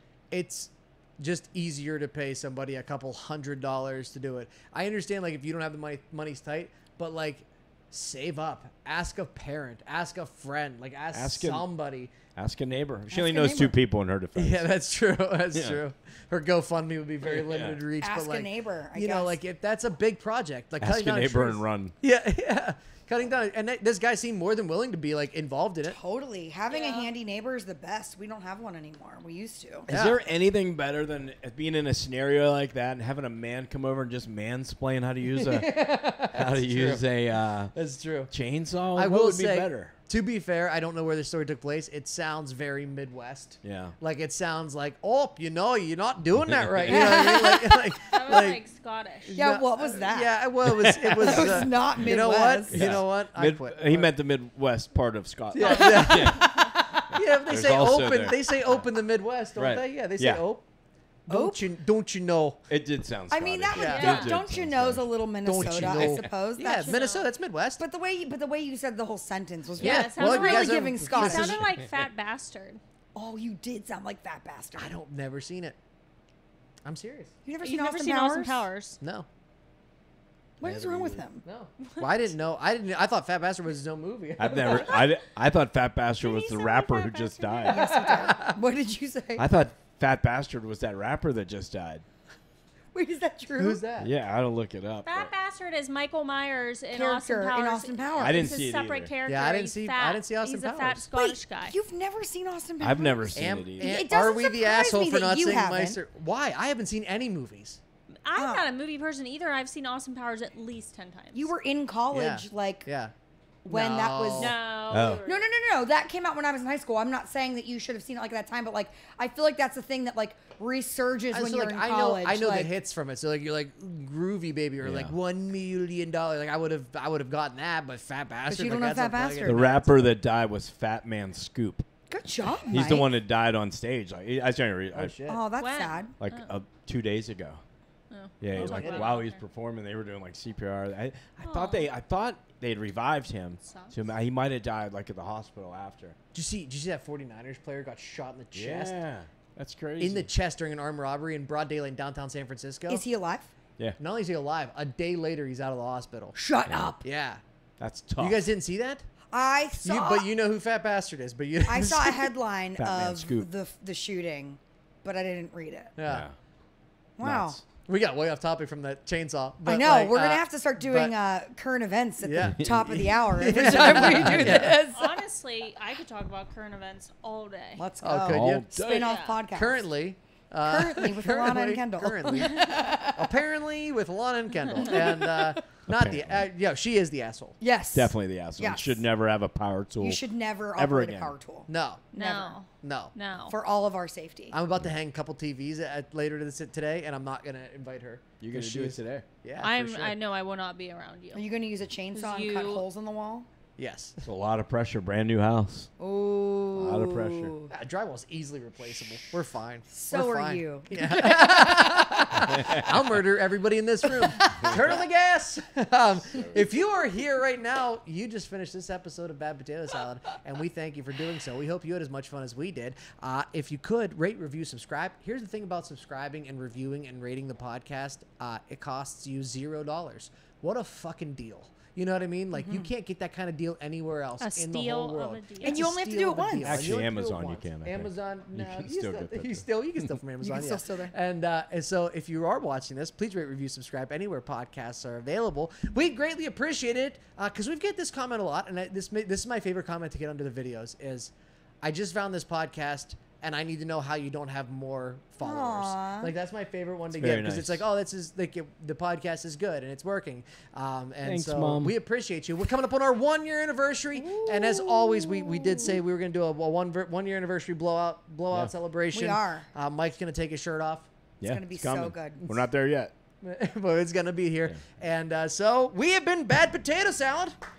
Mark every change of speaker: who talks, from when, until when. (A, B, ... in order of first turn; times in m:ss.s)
0:00.3-0:12.1 A
0:11.1-0:11.7 B
0:12.3-0:14.6 B
0:13.1-0:13.7 C
0:14.4-0:26.0 A
0:15.5-0:15.8 B
0:17.2-0:17.8 B
0:18.0-0:19.4 C
0:20.8-0:21.9 B
0:25.9-0:29.9 C
0:26.7-0:27.1 D
0:29.9-0:30.2 A
0:29.9-0:37.7 B
0:35.4-0:37.0 A
0:37.7-0:38.3 A
0:38.3-0:39.9 B
0:38.9-0:48.6 A
0:43.6-0:43.9 B
0:46.9-0:48.0 C
0:48.1-0:49.4 D
0:49.3-0:54.1 A
0:49.3-0:50.3 C
0:50.6-0:52.0 B
0:51.2-0:53.0 C
0:52.7-0:58.8 B
0:55.5-1:00.6 A
0:56.0-0:56.3 C
0:59.5-1:00.4 B
1:01.3-1:02.6 A
1:01.3-1:01.6 C
1:02.7-1:06.2 B
1:03.3-1:07.0 C
1:03.7-1:04.2 A
1:03.7-1:04.3 D
1:05.4-1:07.8 A
1:06.6-1:07.3 D
1:07.8-1:11.6 C
1:09.8-1:12.8 D
1:09.8-1:10.1 B
1:09.8-1:11.7 A
1:13.1-1:14.9 C
1:14.8-1:15.8 A
1:16.8-1:17.3 A
1:17.4-1:18.6 C
1:17.6-1:19.0 D
1:20.6-1:22.1 C
1:20.6-1:21.2 B
1:21.4-1:25.1 A
1:24.4-1:28.0 B
1:26.2-1:29.5 C
1:27.7-1:28.6 A
1:29.4-1:32.0 B
1:32.9-1:33.8 C
1:33.6-1:34.1 A
1:34.0-1:35.3 B
1:35.0-1:41.7 D
1:36.9-1:38.5 C
1:38.2-1:39.1 B
1:39.2-1:41.0 A
1:41.1-1:46.0 C
1:42.8-1:44.0 B
1:43.3-1:47.8 A
1:48.2-1:51.5 D
1:48.4-1:48.7 C
1:51.3-1:52.9 C
1:52.1-1:53.1 A
1:53.6-1:54.6 C
1:53.7-1:54.5 A
1:54.4-1:55.4 D
1:54.9-1:55.2 B
1:55.1-2:02.7 C
2:01.3-2:10.1 A
2:04.8-2:05.1 B
2:08.5-2:09.6 C
2:09.4-2:11.8 B
2:12.1-2:13.1 C
2:12.7-2:15.2 B
2:14.9-2:15.4 A
2:15.3-2:16.1 C
2:15.6-2:16.5 D
2:16.2-2:17.6 B
2:18.1-2:19.4 D
2:18.4-2:26.2 B
2:18.6-2:19.2 A
2:21.4-2:21.9 D
2:23.6-2:24.0 D
2:26.3-2:28.9 A
2:28.5-2:30.3 B
2:30.0-2:33.0 A
2:32.9-2:33.5 C
2:34.0-2:36.4 A
2:36.3-2:37.0 C
2:36.7-2:36.9 B
2:37.0-2:37.4 A
2:37.8-2:38.5 B
2:38.2-2:39.0 A
2:39.3-2:40.3 C
2:39.8-2:42.3 A
2:41.6-2:45.9 C
2:42.8-2:43.5 B
2:46.0-2:46.3 A
2:46.1-2:46.3 B
2:47.2-2:47.6 C
2:47.2-2:47.6 B
2:47.8-2:51.1 A
2:49.7-2:55.2 C
2:52.2-2:54.7 A
2:52.4-2:52.9 B
2:54.0-2:54.7 B
2:54.9-2:57.8 D
2:57.8-2:59.8 C
2:58.0-2:58.7 A
2:58.2-2:59.2 B
2:58.8-2:59.4 D
2:59.5-3:07.6 A
3:00.6-3:03.3 C
3:04.7-3:05.6 C
3:05.9-3:06.5 B
3:07.6-3:08.9 C
3:07.9-3:10.2 B
3:10.0-3:12.6 C
3:10.8-3:11.4 B
3:11.7-3:12.1 A
3:12.1-3:13.5 D
3:12.8-3:13.1 A
3:13.5-3:14.6 C
3:14.5-3:20.1 A
3:18.4-3:19.3 B
3:19.6-3:21.4 D
3:21.3-3:23.5 C
3:22.1-3:22.8 D
3:23.8-3:24.2 A
3:24.2-3:25.9 B
3:26.0-3:27.7 C
3:26.8-3:27.5 B
3:27.7-4:31.1 A
3:29.9-3:32.3 C
3:34.3-3:34.7 C
3:36.2-3:36.6 B
3:52.5-3:52.9 C
3:54.4-3:55.9 D
3:55.6-3:56.9 C
3:56.6-4:00.1 B
4:00.4-4:01.1 C
4:15.4-4:16.3 C
4:17.1-4:17.8 B
4:21.2-4:22.0 B
4:24.2-4:26.0 C
4:29.1-4:29.7 C
4:31.4-4:33.1 B
4:31.4-4:32.4 C
4:33.4-4:37.6 A